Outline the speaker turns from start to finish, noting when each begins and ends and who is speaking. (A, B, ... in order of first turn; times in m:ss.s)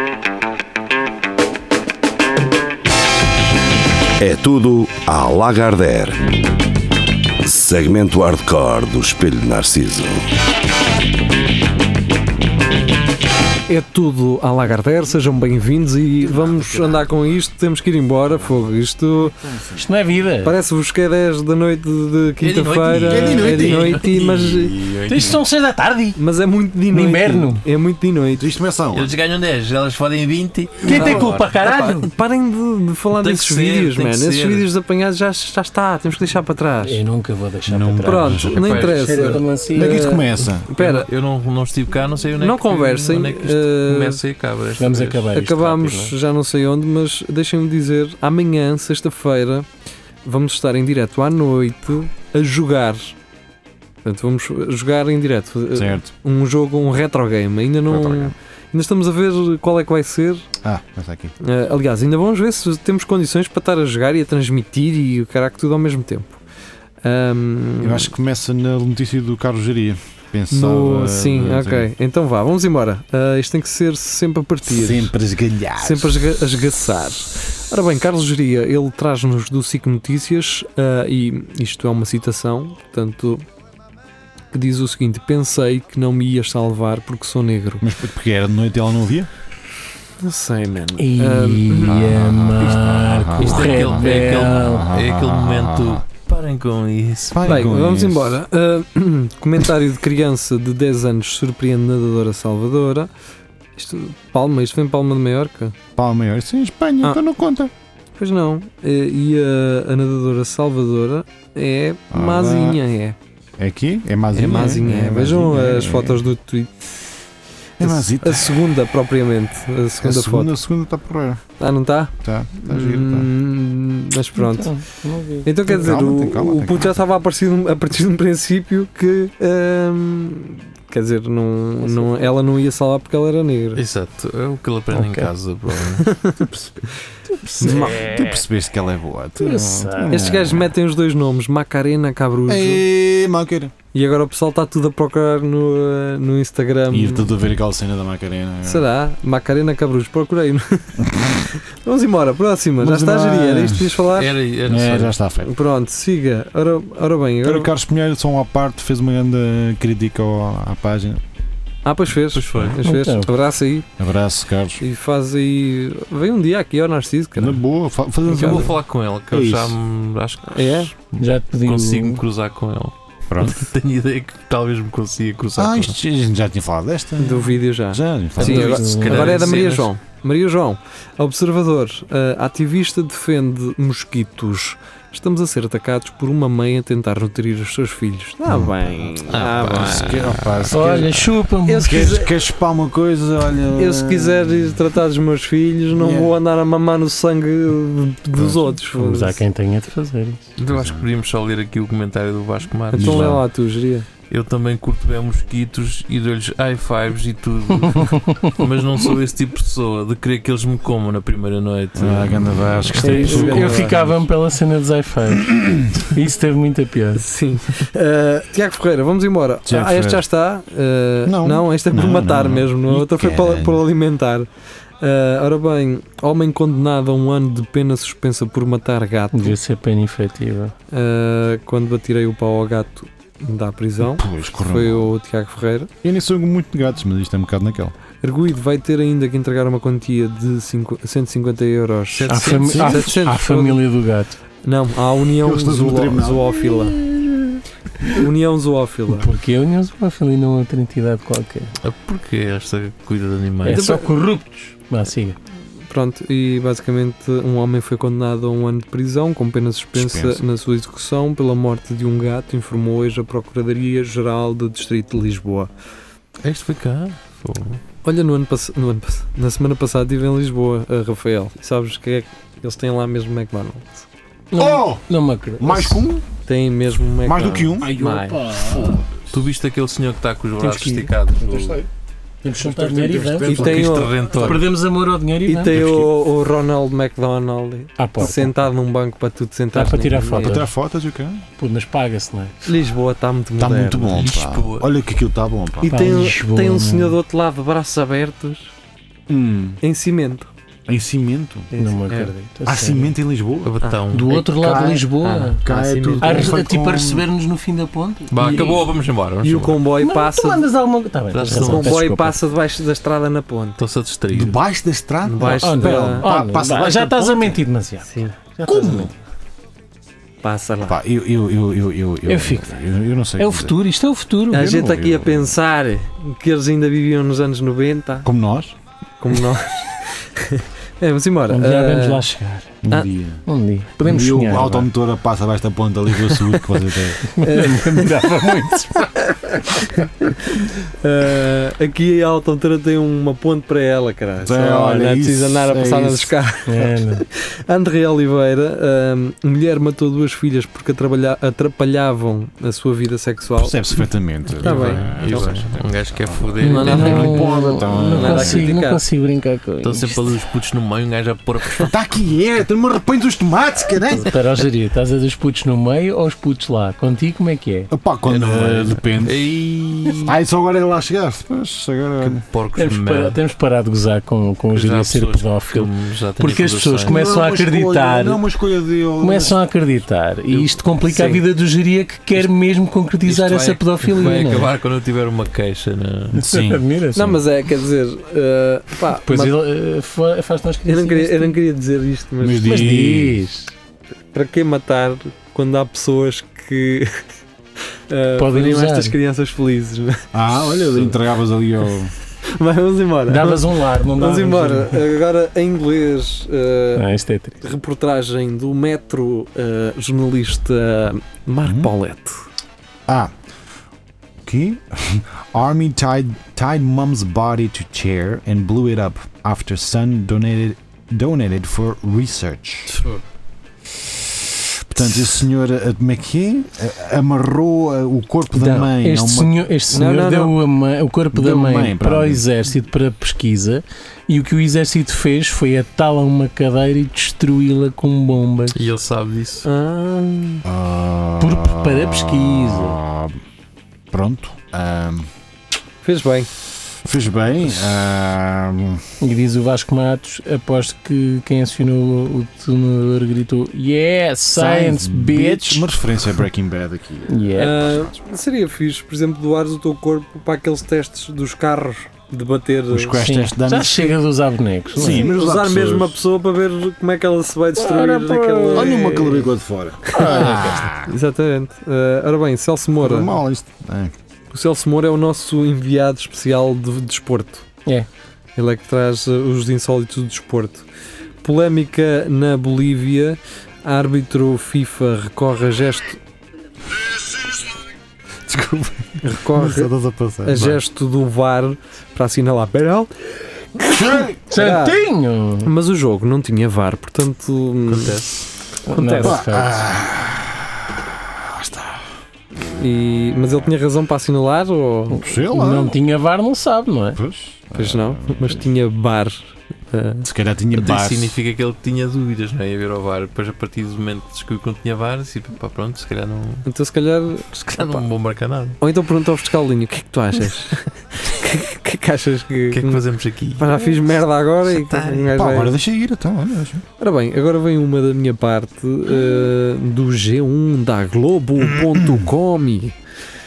0:04.2-0:06.3 A
0:07.4-0:10.2 A
0:13.7-0:19.3 B
0:16.2-0:17.2 C
0:18.3-0:19.8 C
0:19.8-0:20.6 D
0:20.4-0:24.8 B
0:22.4-0:25.4 E
0:23.0-0:25.4 C
0:25.1-0:26.2 D
0:26.2-0:28.5 B
0:26.9-0:27.6 D
0:28.4-0:29.1 C
0:28.9-0:31.4 E
0:30.8-0:31.3 C
0:30.8-0:32.1 D
0:30.9-0:37.0 B
0:33.1-0:34.7 E
0:36.8-0:40.1 D
0:37.7-0:40.7 C
0:38.0-0:41.1 B
0:38.5-0:39.4 E
0:40.7-0:45.3 E
0:42.4-0:44.2 B
0:44.8-0:46.1 D
0:45.3-0:49.7 B
0:50.2-0:53.1 B
0:54.0-1:00.4 B
0:55.7-0:56.1 C
0:57.8-0:58.3 C
1:00.6-1:01.3 C
1:01.4-1:06.4 B
1:07.0-1:08.1 B
1:07.8-1:11.9 C
1:10.5-1:15.1 B
1:14.7-1:16.2 C
1:15.8-1:23.4 B
1:24.5-1:27.8 B
1:27.8-1:29.3 C
1:30.2-1:32.0 B
1:31.0-1:34.9 D
1:31.8-1:36.0 C
1:33.4-1:37.7 E
1:37.3-1:38.4 C
1:37.4-1:43.1 B
1:43.8-1:45.8 B
1:46.0-1:47.7 C
1:48.2-1:53.2 B
1:52.1-1:52.8 C
1:53.6-1:56.3 C
1:54.3-1:57.0 B
1:57.8-1:58.6 C
1:57.8-2:00.5 B
2:00.0-2:01.4 C
2:01.6-2:04.7 B
2:02.2-2:03.3 C
2:04.3-2:05.9 D
2:05.4-2:13.8 B
2:05.7-2:07.0 C
2:11.8-2:12.3 D
2:13.8-2:16.2 E
2:14.9-2:15.3 D
2:16.0-2:16.9 B
2:17.4-2:18.2 D
2:17.6-2:18.1 B
2:17.6-2:20.7 C
2:19.4-2:20.2 D
2:20.0-2:22.8 B
2:22.5-2:23.7 C
2:23.9-2:27.3 B
2:26.9-2:28.8 C
2:28.6-2:34.3 B
2:31.0-2:31.4 C
2:32.8-2:34.0 C
2:34.1-2:35.1 E
2:34.6-2:35.5 C
2:35.4-2:37.7 B
2:37.4-2:41.2 C
2:41.8-2:43.9 B
2:42.3-2:42.8 E
2:42.8-2:43.3 D
2:44.0-2:44.8 C
2:44.8-2:47.6 B
2:47.4-2:48.8 C
2:48.3-2:48.7 B
2:48.3-2:55.9 E
2:49.3-2:49.8 C
2:50.5-2:50.9 B
2:51.2-2:52.2 D
2:53.3-2:53.6 C
2:55.6-2:59.4 C
2:57.2-3:10.5 B
2:58.4-2:59.9 E
2:58.4-2:59.4 D
3:08.5-3:14.8 C
3:10.7-3:12.2 D
3:11.6-3:12.3 B
3:13.8-3:19.4 B
3:15.9-3:16.3 C
3:18.4-3:18.7 C
3:18.9-3:20.5 D
3:20.6-3:23.4 E
3:20.7-3:21.0 C
3:22.9-3:23.4 C
3:22.9-3:24.1 B
3:24.3-3:33.2 E
3:27.9-3:28.6 D
3:32.0-3:34.2 C
3:33.0-3:37.2 D
3:33.1-3:34.0 B
3:35.5-3:35.9 C
3:37.1-3:44.5 B
3:39.6-3:40.2 C
3:41.2-3:43.8 C
3:45.0-3:49.6 B
3:49.3-3:50.7 D
3:50.9-3:55.9 B
3:54.0-3:55.1 C
3:56.0-3:57.9 C
3:58.2-4:03.8 B
4:02.1-4:03.0 E
4:02.3-4:04.3 D
4:02.7-4:03.1 C
4:04.6-4:07.0 B
4:05.4-4:06.5 C
4:08.1-4:09.3 B
4:09.1-4:11.7 D
4:11.8-4:13.8 E
4:13.6-4:15.4 D
4:13.7-4:14.1 B
4:15.9-4:25.7 B
4:19.9-4:20.4 C
4:26.4-4:27.8 E
4:28.0-4:34.0 B
4:34.5-4:36.0 D
4:34.5-4:35.1 C
4:35.6-4:36.2 C
4:36.4-4:38.4 B
4:37.2-4:39.1 C
4:37.9-4:38.9 D
4:39.3-4:41.8 E
4:40.6-4:41.1 D
4:41.4-4:41.9 C
4:42.4-4:46.0 D
4:42.6-4:44.0 C
4:43.4-4:44.2 B
4:43.5-4:44.6 E
4:45.5-4:50.6 B
4:48.0-4:48.6 D
4:49.7-4:50.7 D
4:50.4-4:51.4 C
4:51.6-4:52.6 D
4:52.6-4:54.2 B
4:53.6-4:56.0 C
4:54.0-4:54.9 E
4:55.8-4:58.7 B
4:55.8-4:57.2 D
4:59.3-4:59.8 C
4:59.8-5:00.5 B
5:00.9-5:01.7 C
5:01.7-5:02.3 B
5:01.8-5:03.1 D
5:02.6-5:03.8 C
5:03.6-5:04.4 E
5:03.8-5:04.4 B
5:04.1-5:05.6 D
5:04.4-5:05.1 C
5:05.2-5:06.6 B
5:05.6-5:07.3 C
5:06.2-5:08.4 D
5:08.3-5:09.8 E
5:08.4-5:10.7 B
5:10.0-5:12.4 D
5:11.3-5:12.0 E
5:11.6-5:13.8 B
5:13.8-5:14.6 E
5:14.3-5:17.6 C
5:15.2-5:16.3 B
5:15.5-5:19.1 D
5:18.6-5:19.1 C
5:20.4-5:21.0 B
5:20.8-5:23.8 C
5:22.3-5:22.8 D
5:23.4-5:24.8 D
5:24.5-5:25.5 C
5:24.5-5:28.3 B
5:28.2-5:28.7 C
5:29.2-5:32.2 B
5:31.5-5:32.7 D
5:32.8-5:33.4 C
5:33.4-5:34.9 D
5:34.0-5:37.2 C
5:36.3-5:36.6 B
5:37.3-5:39.1 D
5:37.4-5:38.5 B
5:39.0-5:53.8 B
5:44.4-5:46.3 C
5:46.6-5:47.2 D
5:53.6-5:58.7 C
5:54.6-5:55.6 B
5:54.6-5:57.5 E
5:56.6-5:59.0 B
5:56.6-6:00.4 D
5:59.8-6:01.9 E
6:01.9-6:04.3 C
6:04.2-6:07.9 D
6:07.9-6:09.5 C
6:08.2-6:10.3 E
6:10.2-6:12.4 C
6:12.2-6:13.4 E
6:12.7-6:18.4 D
6:14.7-6:17.3 E
6:17.0-6:19.6 C
6:19.2-6:24.7 D
6:20.5-6:21.4 B
6:23.2-6:26.5 E
6:26.3-6:27.4 D
6:26.3-6:27.4 C
6:27.1-6:29.6 B
6:29.2-6:31.6 D
6:30.8-6:33.0 B
6:32.4-6:33.5 C
6:32.6-6:33.6 D
6:34.3-6:37.3 B
6:38.1-6:40.2 B
6:38.4-6:39.2 D
6:40.3-6:42.1 C
6:42.5-6:47.0 B
6:43.3-6:45.0 D
6:46.9-6:47.6 D
6:47.6-6:52.3 B
6:51.6-6:51.9 C
6:53.1-6:53.3 C
6:54.4-7:03.0 C
7:02.9-7:03.2 E
7:04.0-7:09.6 C
7:08.5-7:18.8 D
7:09.9-7:10.6 B
7:11.3-7:12.4 C
7:18.7-7:19.7 E
7:19.6-7:20.6 B
7:20.6-7:23.4 C
7:21.4-7:23.0 D
7:24.1-7:25.3 C
7:26.0-7:26.5 B
7:27.0-7:29.0 C
7:29.2-7:35.9 D
7:34.5-7:38.2 C
7:37.3-7:37.8 D
7:37.6-7:43.2 B
7:42.9-7:44.2 C
7:43.2-7:45.3 D
7:44.9-7:46.2 C
7:45.0-7:49.5 B
7:47.8-7:51.1 C
7:48.0-7:48.9 D
7:50.1-7:50.8 D
7:50.1-7:50.5 B
7:51.0-7:53.3 B
7:53.0-7:54.1 C
7:54.5-7:57.6 B
7:58.6-8:00.8 B
8:01.4-8:06.2 B
8:08.5-8:10.7 C
8:09.2-8:09.9 B
8:10.4-8:13.1 B
8:10.5-8:10.8 E
8:13.8-8:14.4 C
8:14.5-8:15.7 D
8:14.5-8:15.0 B
8:15.6-8:18.2 B
8:17.9-8:18.3 E
8:18.9-8:19.9 D
8:18.9-8:19.4 B
8:19.2-8:22.0 C
8:22.6-8:25.2 B
8:25.1-8:27.2 D
8:25.2-8:26.0 C
8:27.2-8:28.6 C
8:27.8-8:30.3 B
8:30.2-8:31.4 C
8:30.7-8:36.6 E
8:36.6-8:38.1 B
8:37.7-8:38.8 E
8:38.8-8:43.0 B
8:42.7-8:45.3 E
8:43.6-8:45.7 B
8:45.3-8:46.8 C
8:47.0-8:53.0 B
8:51.6-8:52.3 C